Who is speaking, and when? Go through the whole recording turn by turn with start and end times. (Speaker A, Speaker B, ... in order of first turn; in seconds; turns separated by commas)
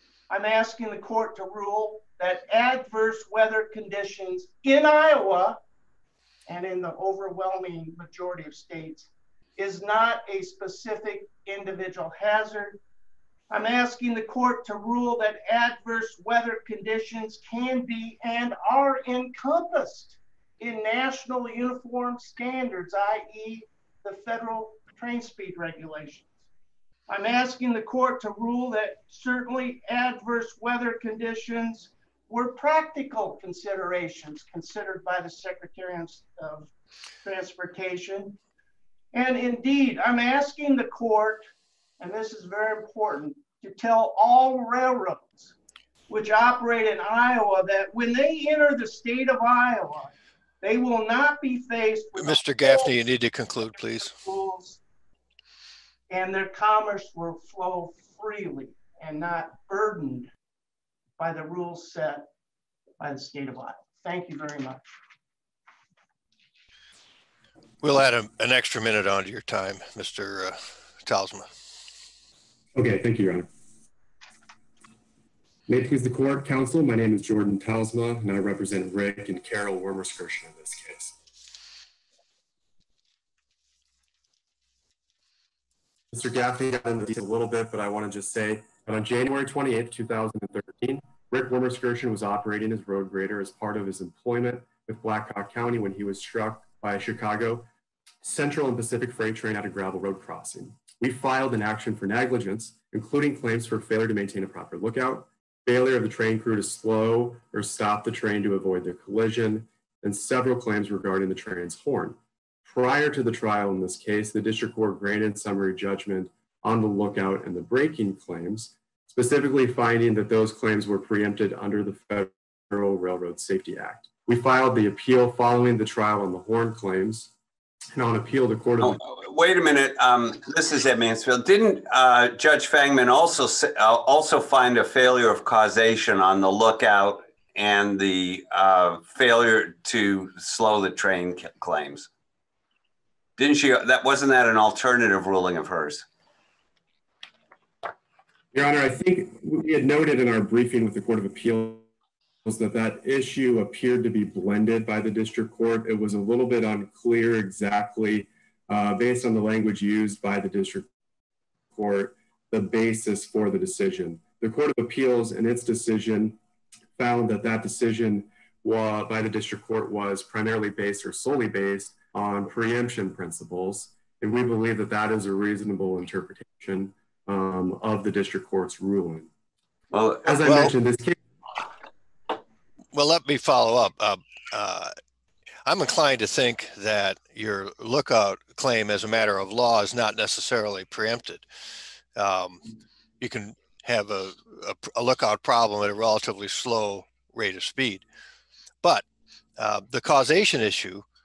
Speaker A: 0.3-5.6, Speaker A: 6.5-12.8, Speaker A: 13.5-26.3, Speaker A: 27.1-36.7, Speaker A: 37.2-38.4, Speaker A: 39.1-41.4, Speaker A: 42.0-45.5, Speaker A: 46.1-52.9, Speaker B: 52.2-54.1, Speaker A: 54.0-54.8, Speaker A: 56.1-60.3, Speaker A: 61.2-62.2, Speaker A: 63.0-64.8, Speaker B: 67.8-71.5, Speaker C: 72.7-73.5, Speaker C: 75.7-81.2, Speaker C: 86.1-97.7, Speaker C: 98.2-127.3, Speaker C: 127.9-129.0, Speaker D: 128.8-142.1, Speaker D: 143.4-146.0, Speaker C: 148.5-151.8, Speaker C: 152.4-160.9, Speaker C: 161.7-166.4, Speaker C: 167.0-179.3, Speaker D: 179.9-180.2, Speaker C: 180.2-181.2, Speaker B: 180.4-180.7, Speaker B: 182.9-184.9, Speaker B: 185.7-191.4, Speaker B: 192.2-192.7, Speaker B: 193.2-198.0, Speaker B: 199.6-201.0